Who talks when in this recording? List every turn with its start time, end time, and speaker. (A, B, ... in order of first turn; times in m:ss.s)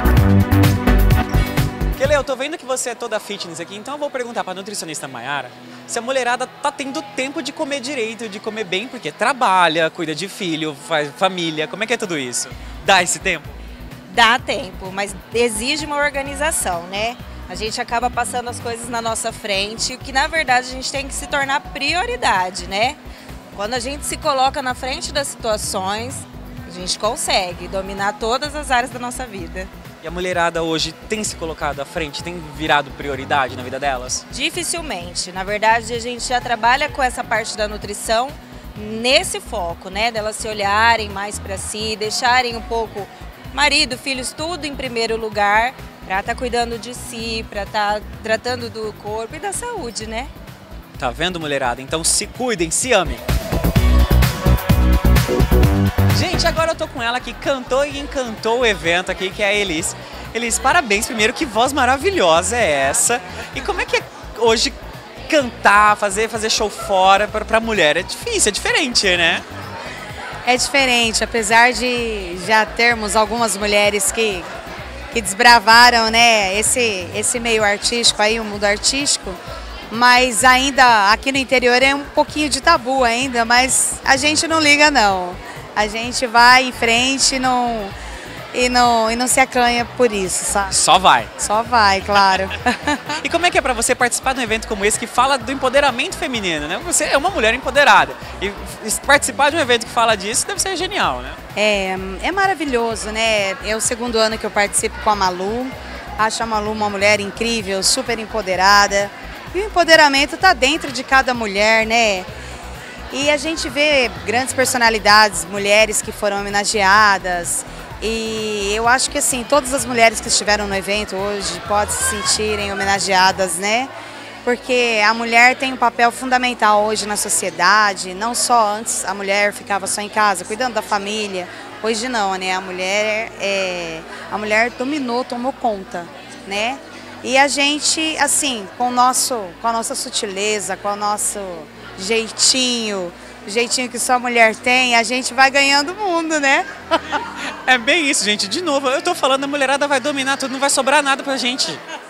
0:02.0-0:13.6 A
0:14.1-0:23.0 B
0:23.5-0:29.7 B
0:30.0-0:34.2 A
0:34.3-0:50.3 B
0:51.0-0:53.2 A
0:56.1-1:09.4 A
1:10.4-1:14.5 C
1:15.1-1:19.4 C
1:19.9-1:27.9 C
1:28.5-1:30.7 C
1:30.7-1:31.3 A
1:31.4-1:33.2 C
1:33.2-1:41.4 A
1:41.5-1:52.3 C
1:53.1-2:03.9 C
2:04.4-2:27.1 C
2:27.6-2:31.8 A